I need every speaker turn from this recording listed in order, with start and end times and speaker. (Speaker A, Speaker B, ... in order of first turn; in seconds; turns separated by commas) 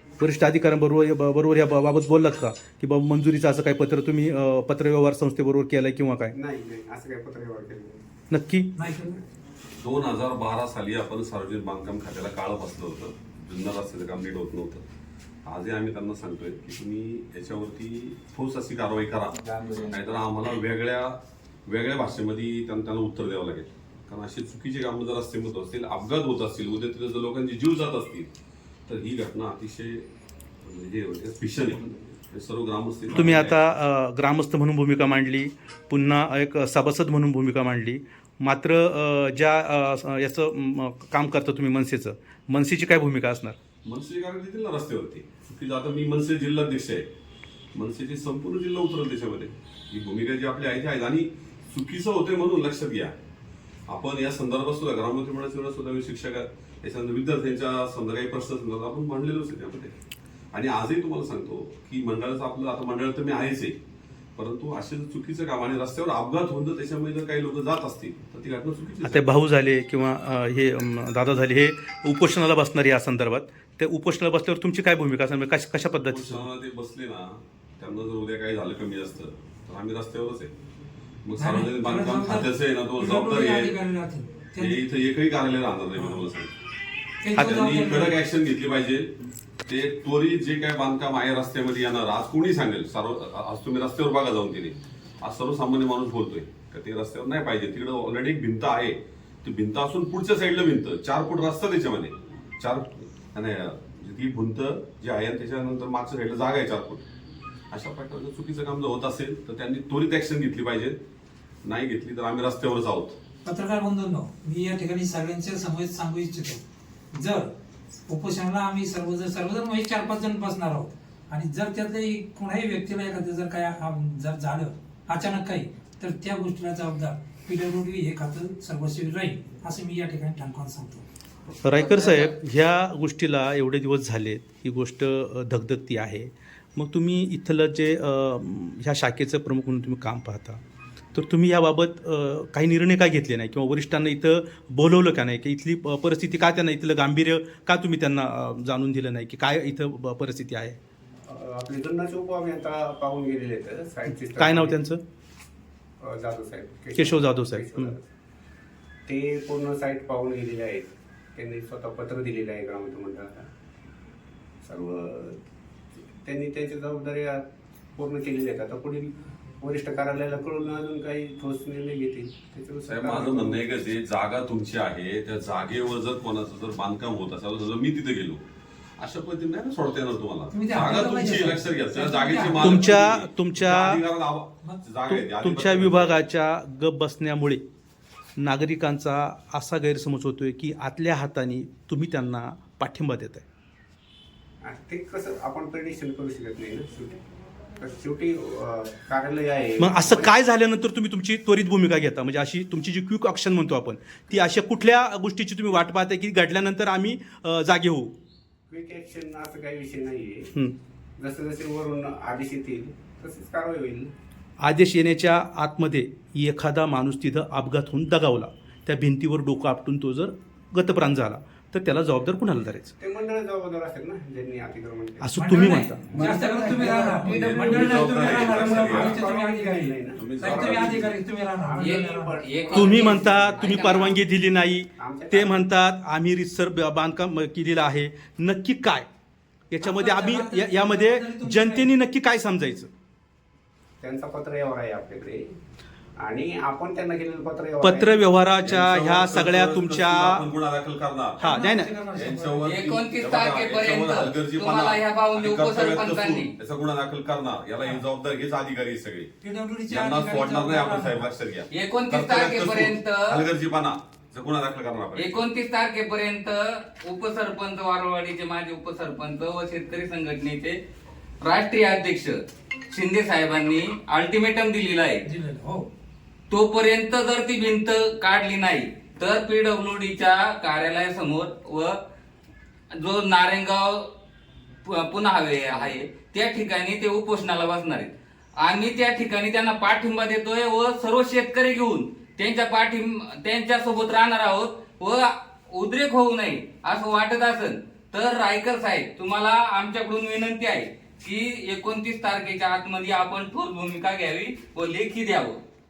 Speaker A: 0.2-6.3, Speaker B: 6.3-8.0, Speaker A: 8.3-8.7, Speaker C: 8.8-9.2, Speaker D: 9.8-14.8, Speaker D: 15.4-28.3, Speaker D: 28.9-30.1, Speaker D: 30.6-33.6, Speaker A: 33.1-43.5, Speaker D: 43.9-47.0, Speaker D: 47.7-53.1, Speaker D: 53.9-59.9, Speaker D: 60.5-63.8, Speaker D: 64.3-69.3, Speaker A: 69.0-76.4, Speaker D: 76.0-80.5, Speaker D: 81.2-83.7, Speaker C: 81.4-84.8, Speaker D: 84.6-86.5, Speaker C: 87.2-88.2, Speaker D: 87.5-89.1, Speaker D: 89.7-107.0, Speaker D: 107.7-111.0, Speaker D: 111.6-113.2, Speaker C: 113.5-116.6, Speaker C: 117.1-117.5, Speaker C: 118.1-131.0, Speaker A: 131.6-140.6, Speaker A: 141.1-150.8, Speaker B: 151.3-154.8, Speaker A: 154.3-155.0, Speaker B: 156.0-158.0, Speaker A: 156.9-157.9, Speaker B: 159.1-163.5, Speaker B: 164.6-165.4, Speaker B: 166.2-167.4, Speaker B: 168.0-169.0, Speaker B: 169.6-173.8, Speaker D: 172.9-178.4, Speaker D: 179.0-186.2, Speaker C: 180.5-182.8, Speaker A: 182.6-184.0, Speaker A: 185.1-187.6, Speaker A: 188.4-193.4, Speaker B: 194.6-197.2, Speaker B: 197.8-200.3, Speaker A: 199.8-208.1, Speaker B: 208.7-210.5, Speaker B: 211.2-214.1, Speaker A: 214.6-222.9, Speaker B: 223.0-233.6, Speaker A: 225.2-226.0, Speaker C: 225.3-232.3, Speaker D: 227.2-229.2, Speaker D: 230.2-230.8, Speaker E: 231.8-234.2, Speaker A: 232.7-239.1, Speaker B: 235.0-235.6, Speaker A: 239.7-242.9, Speaker C: 239.8-241.9, Speaker B: 244.0-245.4, Speaker B: 246.2-248.2, Speaker A: 247.8-250.5, Speaker D: 248.6-251.5, Speaker A: 251.4-251.9, Speaker C: 251.4-252.7, Speaker D: 252.1-259.3, Speaker E: 252.7-256.5, Speaker C: 259.4-261.2, Speaker D: 259.9-265.4, Speaker E: 261.7-263.4, Speaker E: 265.2-270.8, Speaker E: 271.4-272.4, Speaker E: 272.9-275.2, Speaker C: 275.2-275.9, Speaker E: 276.5-282.0, Speaker E: 282.9-284.1, Speaker E: 284.8-288.1, Speaker E: 288.6-305.6